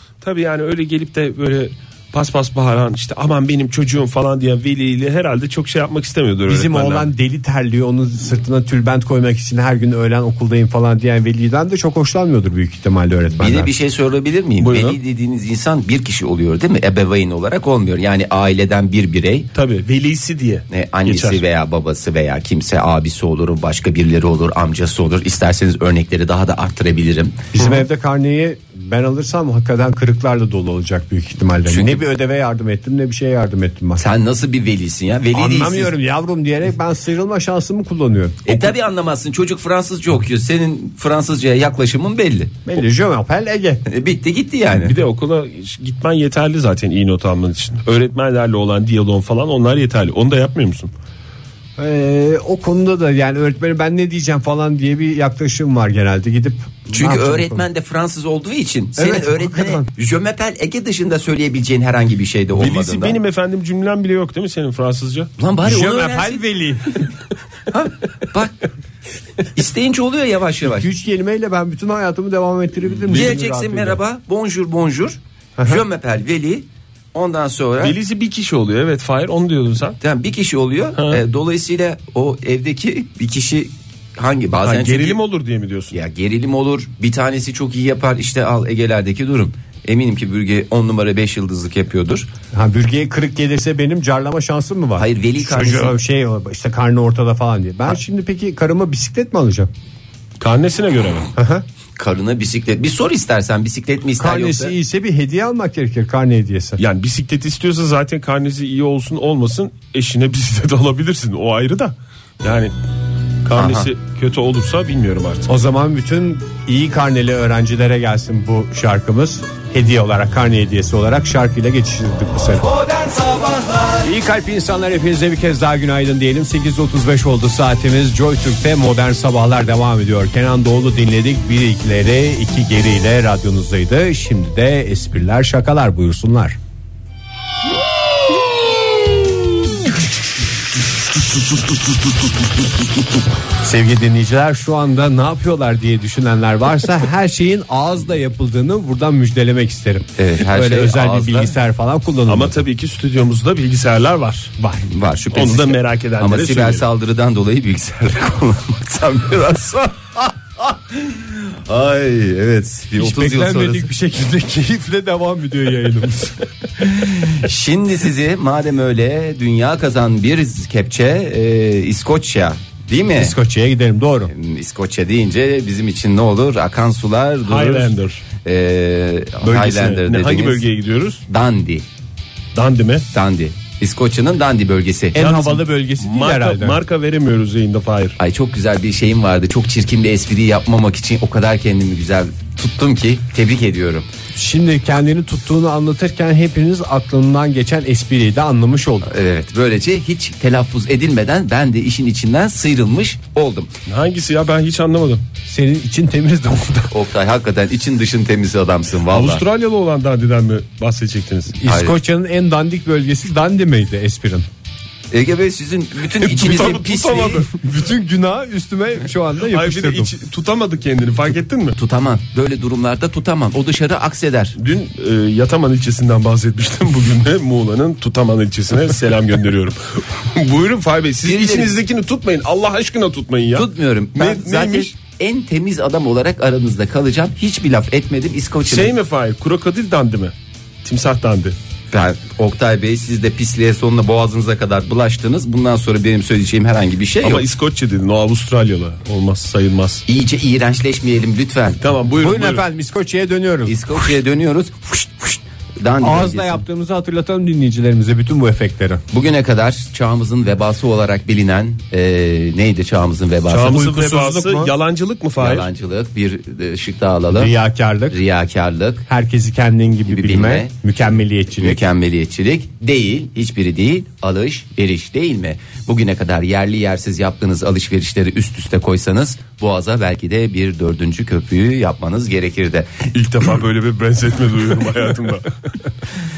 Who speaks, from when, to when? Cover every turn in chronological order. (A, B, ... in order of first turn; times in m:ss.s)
0:00.2-0:07.1 A
0:06.5-0:13.7 B
0:13.4-0:19.5 C
0:14.6-0:15.0 A
0:19.5-0:21.4 A
0:20.7-0:27.5 C
0:27.5-0:34.0 B
0:31.7-0:32.0 C
0:34.0-0:36.0 C
0:35.3-0:38.7 B
0:38.4-0:42.6 C
0:42.6-0:43.8 B
0:43.9-0:45.0 C
0:44.7-0:50.9 A
0:51.8-0:57.6 B
0:56.9-1:03.2 C
0:59.0-0:59.9 B
1:02.6-1:05.3 A
1:05.4-1:06.4 C
1:05.6-1:06.9 B
1:07.7-1:08.6 C
1:09.5-1:10.9 C
1:10.7-1:14.0 B
1:12.9-1:18.0 C
1:15.6-1:15.8 B
1:17.8-1:20.0 A
1:20.0-1:25.2 C
1:20.9-1:21.2 A
1:24.6-1:25.9 A
1:25.9-1:32.3 C
1:32.5-1:39.7 B
1:35.0-1:36.0 C
1:40.4-1:41.3 A
1:41.3-1:41.6 B
1:42.0-1:44.7 C
1:44.2-1:46.8 B
1:46.8-1:52.7 A
1:53.4-1:55.5 A
1:53.5-1:53.9 C
1:55.5-2:02.8 B
2:04.0-2:16.6 B
2:23.6-2:32.6 B
2:30.2-2:31.5 C
2:32.3-2:34.5 A
2:34.6-2:34.8 B
2:34.9-2:43.9 C
2:35.3-2:36.8 A
2:43.0-2:46.4 B
2:46.9-2:53.3 C
2:53.1-2:54.3 B
2:54.3-3:00.6 C
2:57.4-2:58.2 A
2:59.4-3:01.2 A
3:01.3-3:01.8 C
3:02.5-3:03.0 A
3:03.1-3:05.2 C
3:05.1-3:06.8 B
3:05.2-3:08.2 A
3:08.2-3:14.1 C
3:14.3-3:19.1 B
3:19.0-3:23.7 C
3:23.8-3:25.2 A
3:25.4-3:26.9 B
3:26.9-3:29.4 C
3:29.1-3:31.6 A
3:31.6-3:34.5 B
3:31.6-3:32.0 C
3:35.1-3:37.4 C
3:36.0-3:37.7 A
3:37.5-3:40.1 B
3:39.5-3:41.8 A
3:41.8-3:44.6 C
3:44.6-3:54.9 A
3:51.2-3:51.7 C
3:53.5-3:58.9 C
3:58.7-4:00.3 A
4:00.8-4:01.5 A
4:01.9-4:07.4 C
4:07.2-4:10.0 A
4:10.1-4:11.8 C
4:11.8-4:12.6 A
4:12.2-4:13.8 B
4:13.6-4:16.6 C
4:16.0-4:19.0 B
4:19.1-4:23.8 C
4:23.5-4:25.7 A
4:23.7-4:24.7 B
4:25.4-4:27.5 C
4:27.3-4:28.2 B
4:28.1-4:29.0 C
4:29.1-4:31.8 B
4:30.1-4:30.7 C
4:31.6-4:43.1 C
4:43.1-4:45.6 A